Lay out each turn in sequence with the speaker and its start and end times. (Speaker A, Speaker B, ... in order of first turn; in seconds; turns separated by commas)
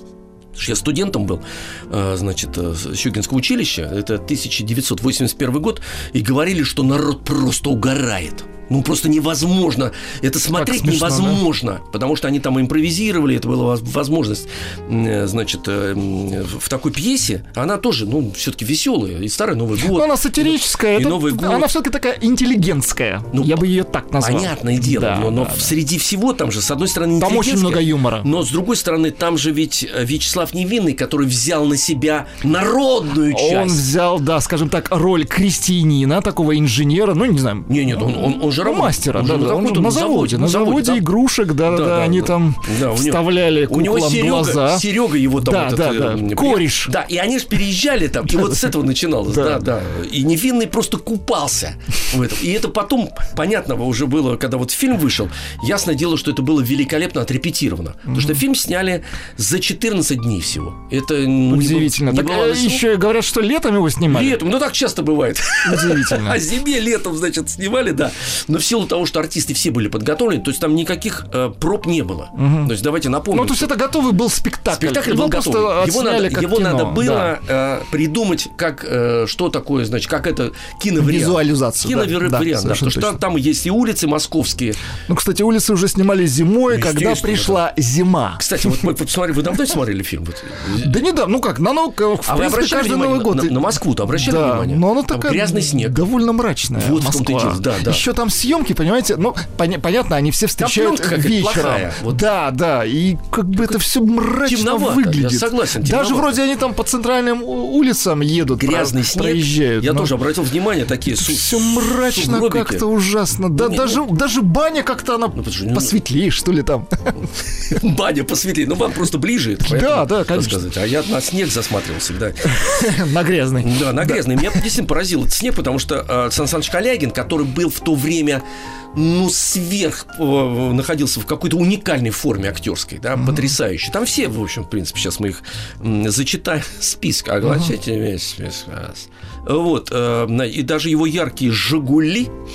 Speaker A: 0.5-21.7, Speaker B: 10.5-11.4, Speaker B: 19.8-25.8, Speaker A: 23.3-23.6, Speaker A: 24.2-33.9, Speaker B: 27.2-28.3, Speaker B: 33.3-44.8, Speaker A: 37.7-41.1, Speaker A: 41.6-62.8, Speaker B: 45.4-46.9, Speaker B: 49.3-49.6, Speaker B: 58.1-58.4, Speaker B: 61.5-64.4, Speaker A: 64.1-73.7, Speaker B: 65.6-66.4, Speaker B: 72.3-72.7, Speaker B: 73.3-77.3, Speaker A: 74.7-84.8, Speaker B: 81.0-83.2, Speaker B: 85.1-88.4, Speaker A: 86.7-87.6, Speaker A: 88.4-91.0, Speaker B: 90.8-110.1, Speaker A: 92.2-96.0, Speaker A: 96.8-98.0, Speaker A: 100.6-102.2, Speaker A: 104.4-106.4, Speaker A: 108.5-112.8, Speaker B: 111.1-117.1, Speaker A: 113.5-114.0, Speaker A: 115.3-115.9, Speaker A: 117.7-122.8, Speaker B: 119.6-120.6, Speaker B: 122.5-124.6, Speaker A: 123.6-142.3, Speaker B: 133.2-133.5, Speaker B: 137.4-137.7